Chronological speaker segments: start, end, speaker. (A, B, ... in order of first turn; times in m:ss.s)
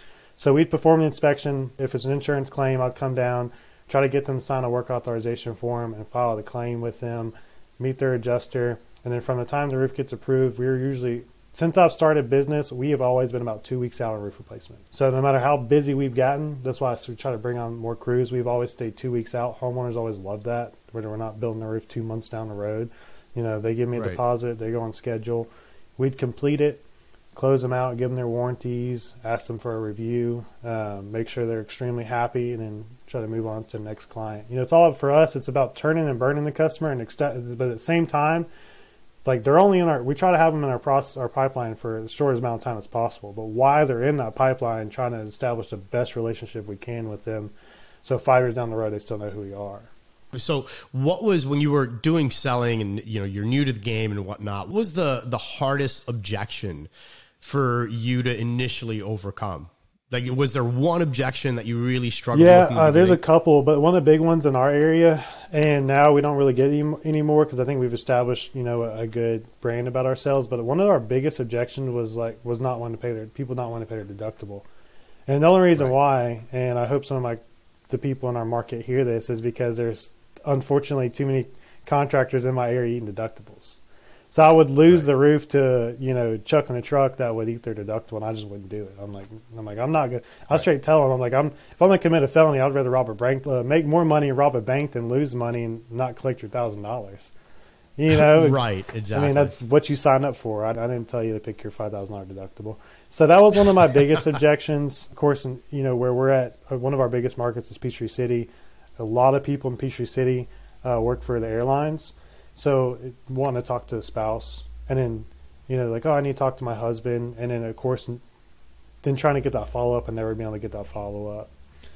0:00.4-0:26.8 A
0:23.9-0:24.2 B
0:27.3-0:38.5 A
0:39.2-0:47.5 A
0:48.0-0:49.9 A
0:50.3-0:56.9 B
0:57.4-1:03.2 B
1:02.3-1:14.6 A
1:15.3-1:23.8 A
1:24.3-1:37.3 A
1:38.0-1:58.2 A
1:38.1-1:39.5 B
1:59.0-2:01.5 A